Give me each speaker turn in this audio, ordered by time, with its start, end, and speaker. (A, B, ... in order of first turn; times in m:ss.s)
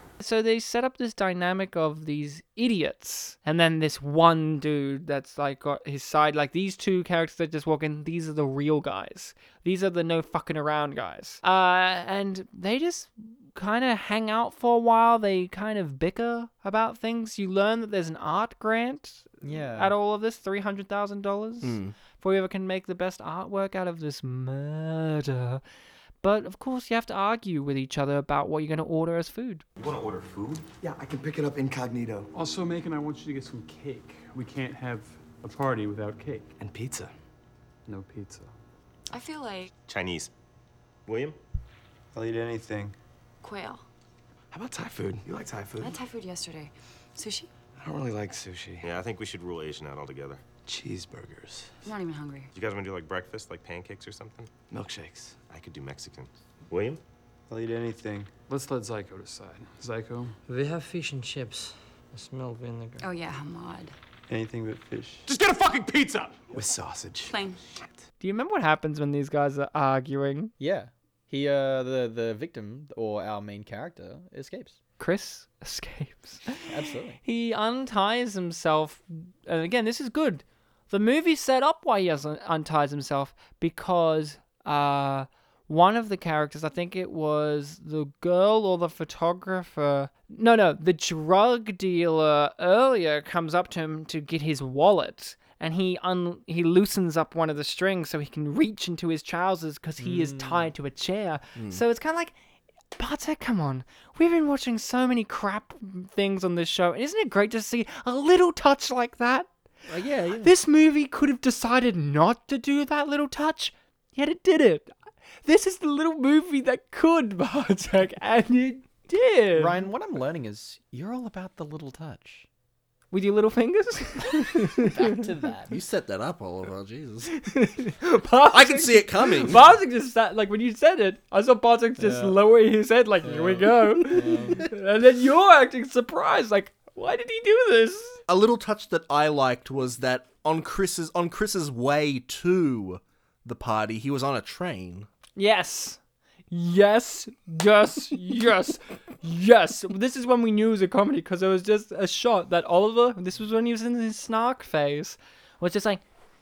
0:00.2-0:25.6 A
0:19.4-0:20.0 B
0:21.6-0:22.0 C
0:26.2-0:29.6 A
0:29.8-0:32.3 D
0:32.3-0:36.5 E
0:36.6-0:37.1 D
0:37.9-0:38.5 E
0:39.1-0:39.7 F
0:39.7-0:40.3 G
0:41.1-0:41.4 G
0:42.1-0:43.0 H
0:43.4-0:43.8 F
0:44.5-0:46.0 D
0:45.8-0:47.5 F
0:47.8-0:48.9 D
0:48.8-0:50.5 G
0:50.6-0:51.7 D
0:51.8-0:52.5 F
0:52.6-0:54.5 G
0:54.7-0:55.4 D
0:55.5-0:57.0 G
0:57.5-0:58.3 H
0:58.5-1:00.4 E
1:00.5-1:03.0 I
1:03.0-1:03.9 F
1:04.3-1:05.3 H
1:05.3-1:06.3 E
1:06.5-1:07.4 D
1:07.3-1:07.6 F
1:08.2-1:10.5 A
1:10.6-1:14.8 B
1:15.0-1:16.7 A
1:16.6-1:17.2 B
1:17.2-1:42.3 A
1:40.0-1:40.7 B
1:41.6-1:41.8 C
1:43.0-1:49.5 A
1:49.9-1:50.5 C
1:50.4-1:54.9 A
1:55.4-1:59.8 A
1:59.6-2:02.5 B
2:03.1-2:05.2 A
2:04.8-2:05.8 B
2:05.7-2:07.3 C
2:07.3-2:18.2 A
2:08.5-2:09.6 C
2:12.0-2:12.4 B
2:13.2-2:14.7 B
2:18.3-2:25.1 C
2:25.4-2:26.0 A
2:26.5-2:36.0 A